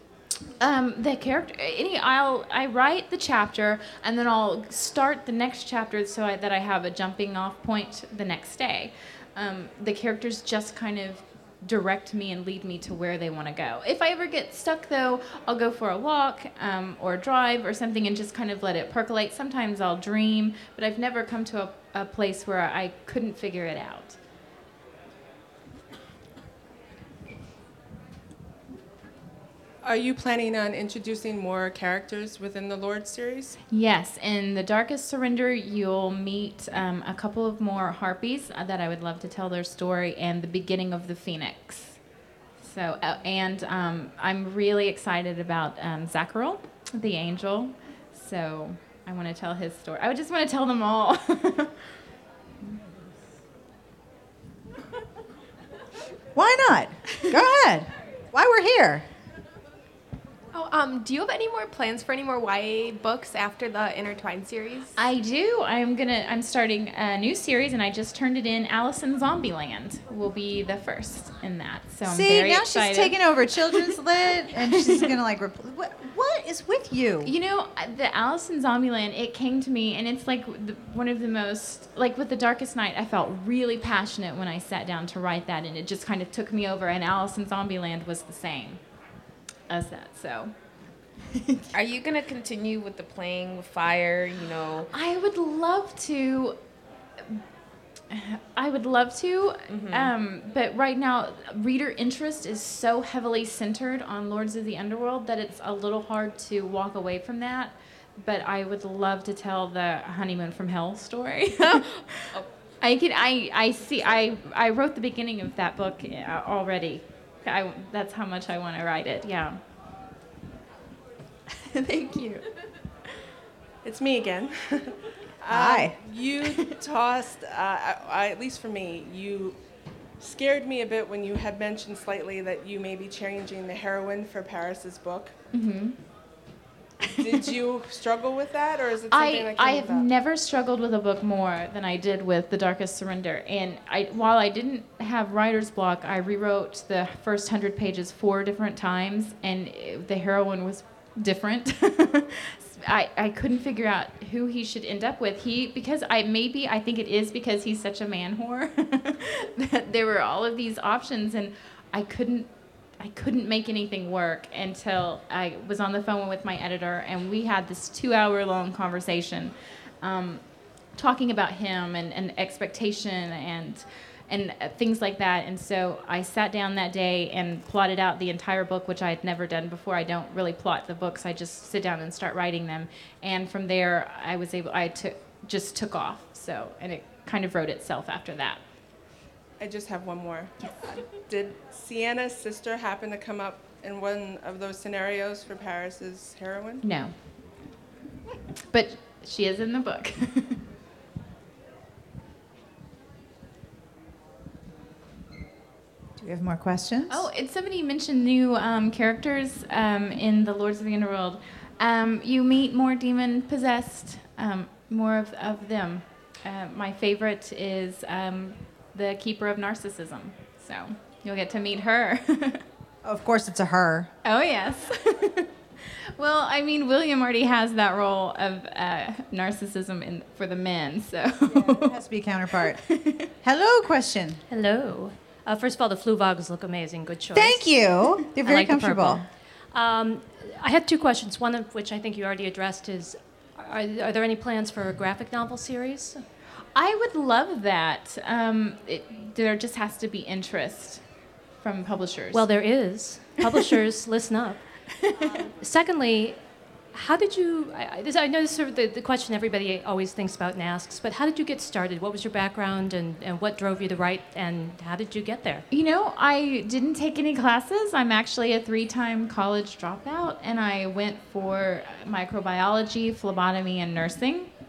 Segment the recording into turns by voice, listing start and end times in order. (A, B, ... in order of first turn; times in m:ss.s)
0:00.6-0:24.2 A
0:29.8-0:33.6 B
0:33.7-0:42.0 A
0:42.6-0:51.8 A
0:56.3-0:59.0 C
1:00.5-1:05.0 D
1:05.0-1:13.2 A
1:12.0-1:17.3 C
1:13.7-1:14.0 A
1:14.5-1:15.1 A
1:17.2-1:28.8 A
1:29.7-1:30.5 A
1:31.3-1:31.6 A
1:31.7-1:34.9 E
1:34.9-1:36.6 A
1:38.1-1:59.6 A
1:39.7-1:40.1 E
1:51.6-1:52.5 E
2:01.5-2:02.4 A
2:03.8-2:09.6 B
2:05.5-2:06.0 C
2:10.2-2:15.3 B
2:15.5-2:16.0 A
2:17.1-2:20.1 B
2:19.1-2:50.4 A
2:51.0-3:08.6 A
3:09.6-3:16.8 B
3:16.8-3:17.1 A
3:18.7-3:20.6 A
3:26.2-3:27.3 C
3:27.1-3:42.6 A
3:43.0-3:44.1 C
3:44.2-3:52.0 A
3:51.4-3:52.8 C
3:52.7-3:53.3 A
3:53.4-3:54.4 C
3:54.5-4:06.2 F
3:57.3-3:59.2 C
4:06.7-4:11.0 A
4:11.6-4:12.5 A
4:12.3-4:14.6 F
4:15.0-4:15.5 A
4:15.5-4:16.4 F
4:16.9-4:25.6 F
4:25.7-4:34.5 A